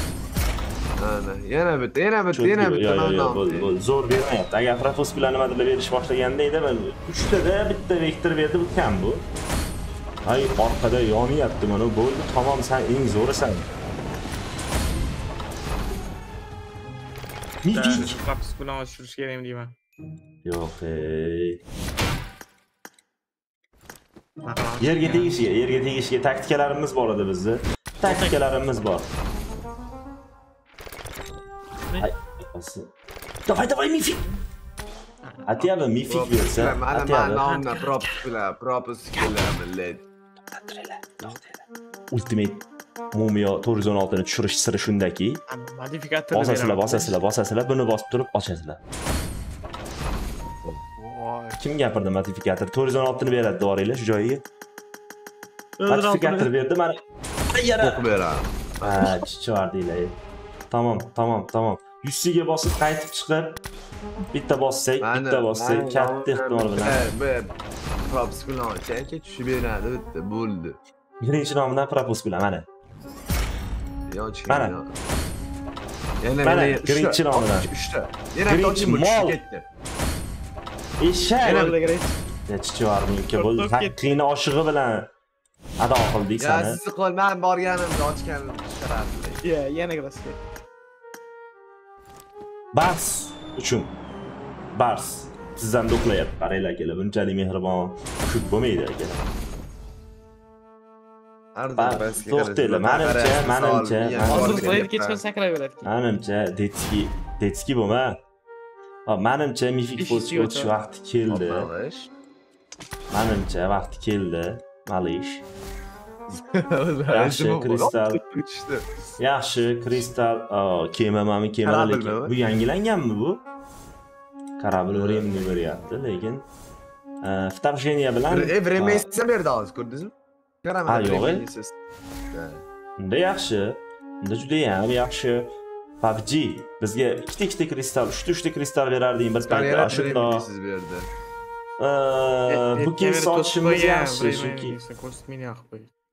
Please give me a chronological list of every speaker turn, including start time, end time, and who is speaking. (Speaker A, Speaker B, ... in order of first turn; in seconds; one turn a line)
Speaker A: 1.0-3.8
Speaker B: 2.3-9.2
Speaker B: 10.2-13.7
Speaker B: 17.6-18.2
Speaker C: 17.7-19.8
Speaker B: 20.4-21.6
Speaker C: 24.4-25.5
Speaker B: 24.8-29.1
Speaker C: 28.0-28.4
Speaker B: 32.0-32.9
Speaker B: 33.5-34.3
Speaker C: 35.2-35.8
Speaker B: 35.5-37.5
Speaker A: 36.1-40.0
Speaker C: 37.4-38.2
Speaker B: 40.5-45.4
Speaker C: 45.5-47.2
Speaker B: 46.3-48.8
Speaker C: 51.0-51.6
Speaker B: 51.6-54.4
Speaker C: 55.8-56.5
Speaker B: 55.9-58.0
Speaker A: 57.8-59.2
Speaker B: 58.8-60.2
Speaker B: 60.7-63.6
Speaker B: 64.3-67.1
Speaker A: 65.0-70.8
Speaker B: 71.2-72.7
Speaker A: 74.1-75.0
Speaker B: 74.5-74.8
Speaker A: 76.2-79.7
Speaker B: 76.4-77.7
Speaker B: 78.5-79.4
Speaker B: 81.0-81.8
Speaker A: 81.4-81.8
Speaker C: 81.4-82.2
Speaker B: 82.5-85.1
Speaker C: 83.2-84.2
Speaker B: 85.8-86.8
Speaker A: 86.4-89.4
Speaker C: 89.4-90.4
Speaker B: 92.7-94.0
Speaker B: 94.7-99.3
Speaker A: 101.5-105.2
Speaker B: 101.8-104.9
Speaker C: 104.2-105.9
Speaker B: 105.8-108.2
Speaker B: 109.1-111.7
Speaker C: 110.0-110.8
Speaker A: 111.3-112.1
Speaker B: 113.1-115.5
Speaker A: 116.3-118.9
Speaker B: 117.1-118.2
Speaker B: 119.2-123.4
Speaker A: 121.6-122.3
Speaker B: 124.6-126.5
Speaker A: 124.9-125.9
Speaker B: 127.2-129.1
Speaker A: 128.3-131.8
Speaker B: 130.9-131.4
Speaker A: 132.3-132.7
Speaker B: 133.0-140.5
Speaker A: 139.4-141.1
Speaker B: 141.8-144.8
Speaker C: 142.5-145.9